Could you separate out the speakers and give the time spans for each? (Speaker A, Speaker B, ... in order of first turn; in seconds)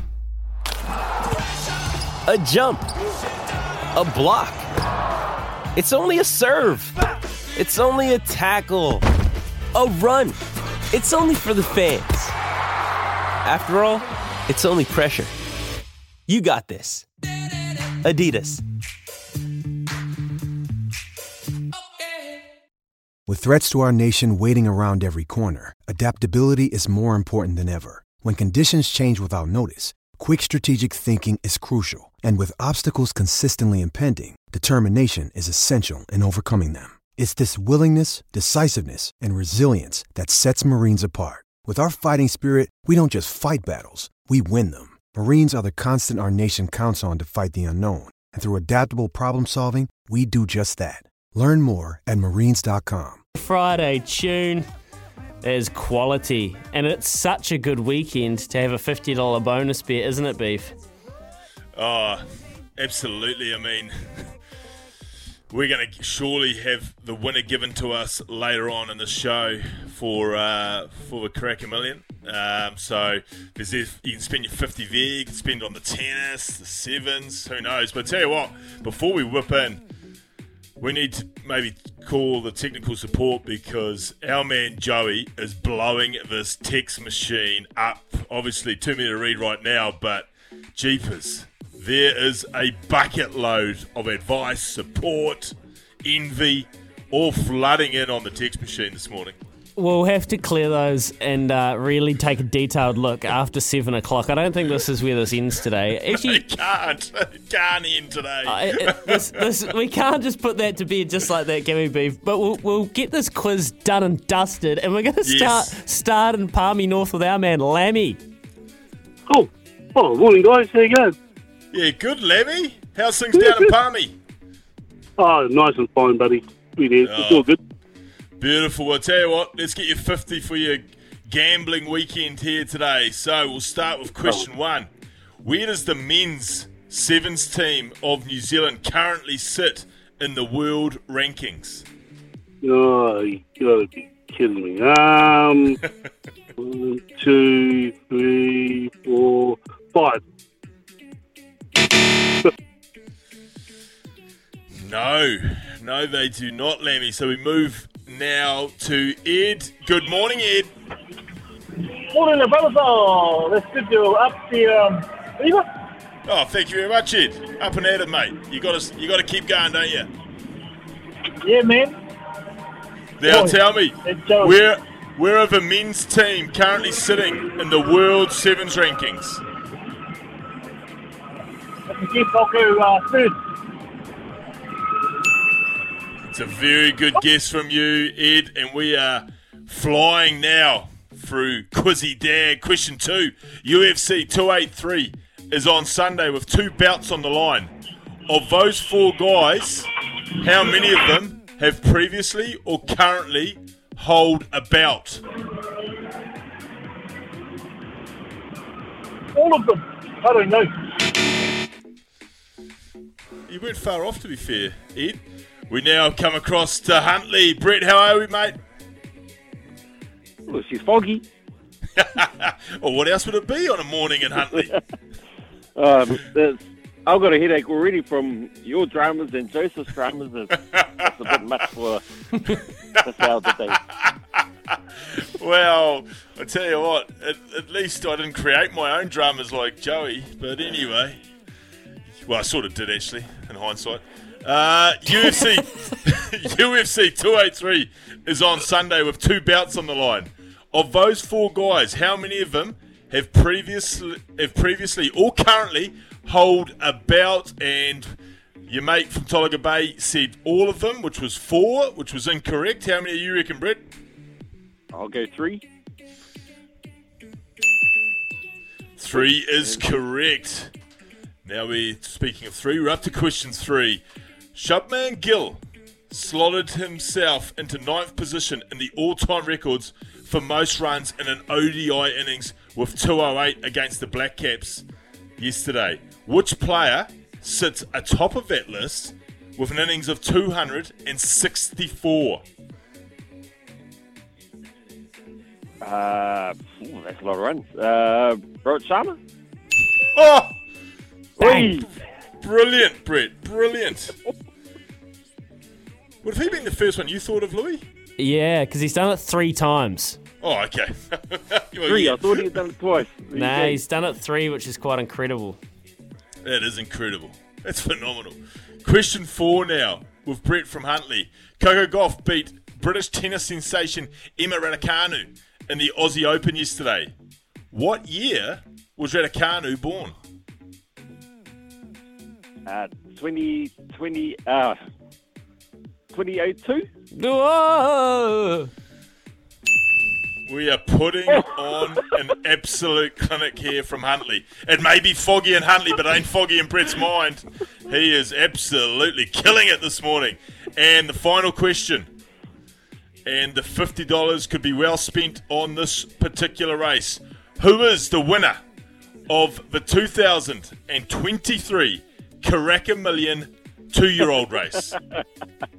Speaker A: 2.3-2.9, 3.9-4.6, 5.7-9.0, 9.7-10.4, 10.9-12.3, 13.4-15.3, 16.3-17.1, 18.0-18.6
Speaker B: 23.3-53.2
Speaker C: 53.3-54.6, 55.4-60.7, 99.8-106.4, 108.5-118.2, 308.2-310.2, 313.3-315.6, 337.1-338.7
Speaker D: 61.7-62.2, 62.8-64.3, 65.5-79.8, 80.8-99.3, 106.1-109.2, 115.2-115.7, 121.7-124.2, 127.0-127.5, 128.4-134.9, 135.4-141.8, 154.8-160.7, 166.2-170.1, 173.2-179.4, 186.3-197.7, 198.3-205.2, 213.5-218.6, 221.9-224.7, 235.3-241.2, 242.2-258.1, 258.7-263.8, 269.0-270.7, 271.4-274.0, 274.5-284.9, 285.4-292.4, 300.1-300.5, 301.4-304.2, 306.2-307.8, 310.4-312.6, 316.4-327.1, 327.7-330.1, 340.4-352.1, 353.2-358.6, 359.3-365.0
Speaker E: 119.3-121.1, 123.3-123.7, 125.2-127.6, 142.6-145.8, 146.6-150.2
Speaker F: 162.0-165.7, 171.4-172.0, 173.2-174.5, 181.9-183.4, 209.3-210.8
Speaker G: 220.5-221.2, 225.8-232.1, 233.0-233.8, 264.9-265.6, 269.1-269.9, 295.8-299.2, 301.4-301.9, 311.9-313.8, 332.6-334.8, 336.1-336.9, 341.3-342.0